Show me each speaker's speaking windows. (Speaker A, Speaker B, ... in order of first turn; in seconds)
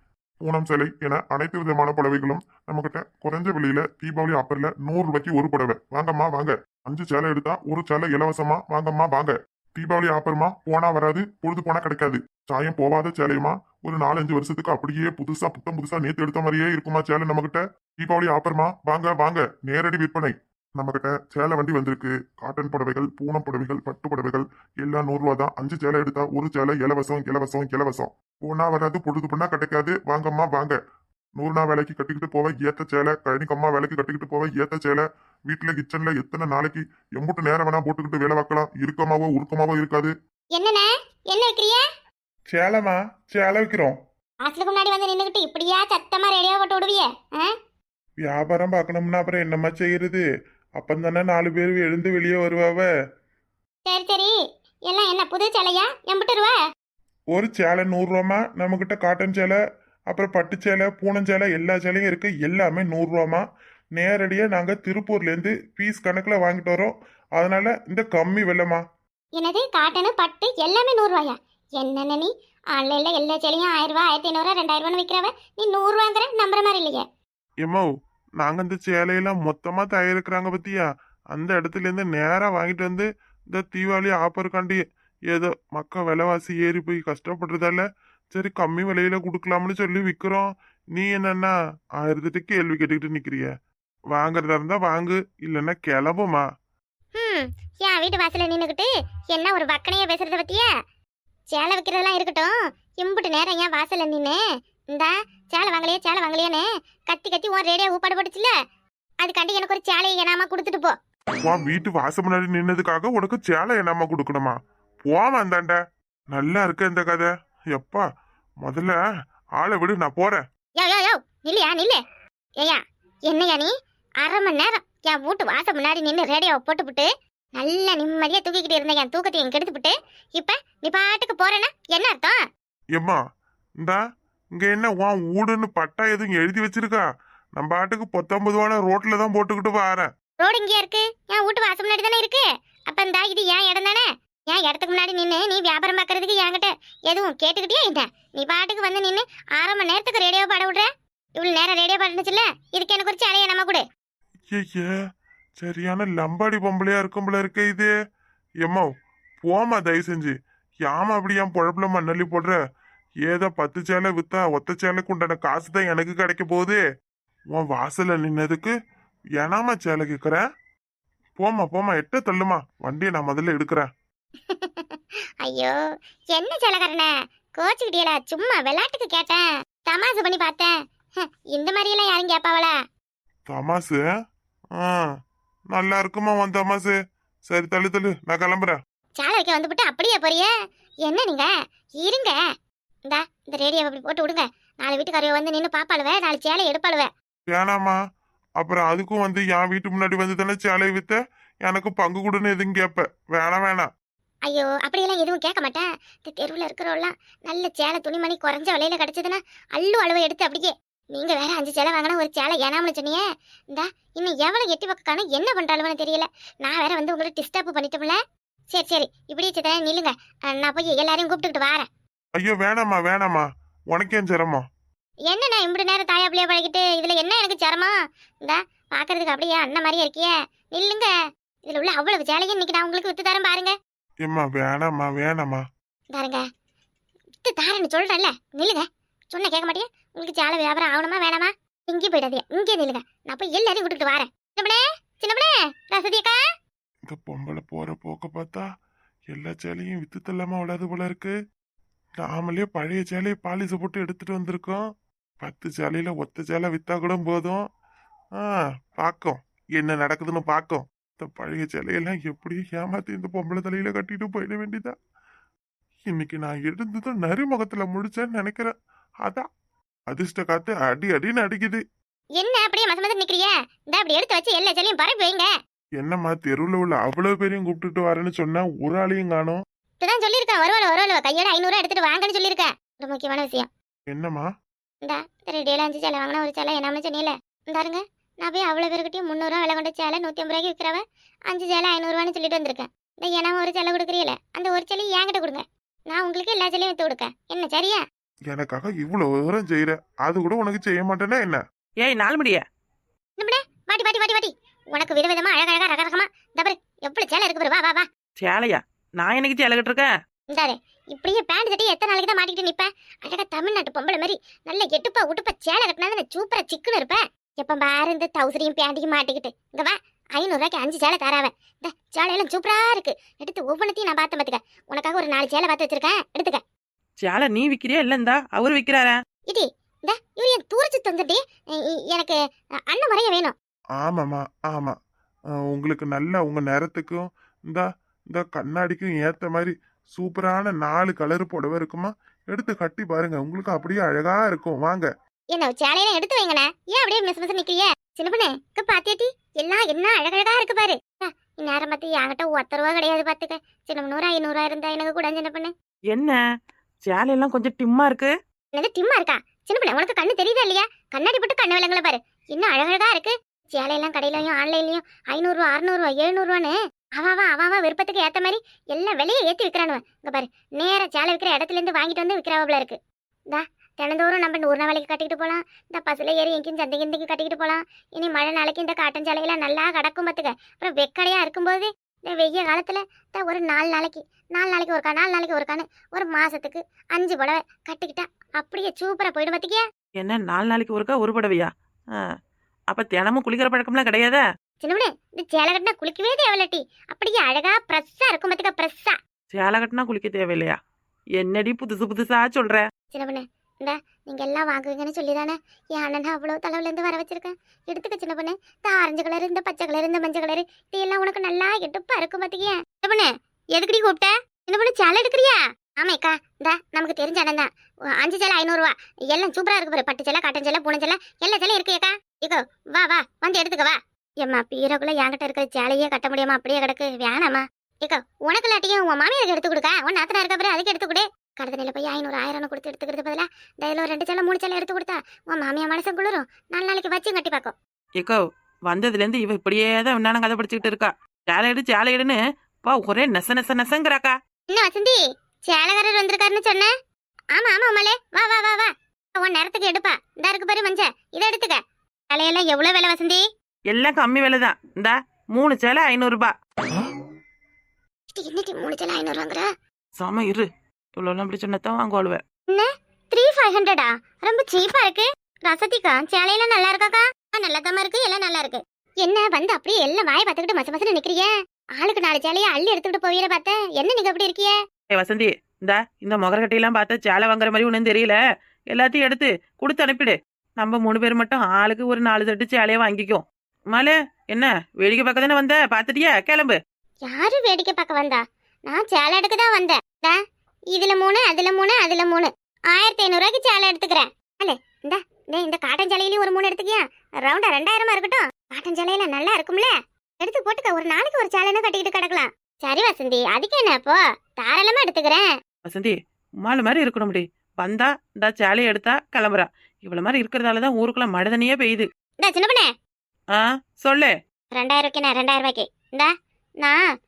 Speaker A: 0.4-30.8, 31.4-40.1
Speaker B: 40.5-41.8, 44.4-47.5, 53.9-54.3, 54.9-56.6, 69.4-77.0, 97.2-100.7, 101.5-104.4, 104.9-108.5, 109.2-111.0, 120.8-122.0, 122.6-132.4, 140.4-153.8, 174.5-175.8, 176.3-182.7, 189.2-190.5, 191.1-192.4, 193.1-197.1, 204.5-218.2, 218.7-221.9, 225.3-227.9, 228.4-231.1, 231.7-233.7, 236.1-236.4, 237.4-246.4, 272.4-275.5, 280.0-283.7, 285.0-298.0, 303.4-308.1, 310.5-326.6, 329.5-332.4, 332.9-333.5, 345.5-355.7, 358.7-373.0, 373.5-389.8, 394.8-399.2, 403.1-437.7, 444.7-446.9, 447.6-451.8, 452.3-453.4, 458.3-459.7, 462.7-474.8, 487.3-490.4, 490.9-505.5, 512.4-512.9, 514.7-516.3
Speaker C: 42.5-44.0, 48.2-50.2, 50.8-52.9, 57.3-59.6, 60.1-63.5, 64.0-68.8, 78.4-93.5, 94.1-96.5, 111.4-115.8, 116.3-118.0, 118.6-119.0, 119.6-120.4, 134.6-137.1, 137.6-140.1, 154.5-154.9, 155.6-157.9, 159.4-160.3, 160.8-162.6, 163.2-166.8, 167.5-168.7, 169.4-170.4, 171.4-173.9, 183.5-184.0, 184.8-185.0, 185.7-186.9, 187.5-188.8, 197.5-198.0, 198.6-203.9, 222.4-224.6, 234.2-235.6, 247.1-248.7, 249.3-251.3, 252.2-254.8, 255.4-257.6, 258.4-264.9, 266.1-268.7, 270.1-271.8, 276.0-279.6, 284.1-284.5, 298.5-301.6, 334.0-335.0, 335.7-345.1
Speaker D: 302.0-302.6, 308.4-310.1, 327.2-329.1, 356.1-356.4, 357.1-358.3, 390.2-392.3, 392.9-394.4, 399.5-400.8, 401.4-402.8, 438.2-444.4, 453.9-456.5, 460.2-462.4, 475.1-478.4, 478.9-486.8, 505.9-512.1, 513.5-514.3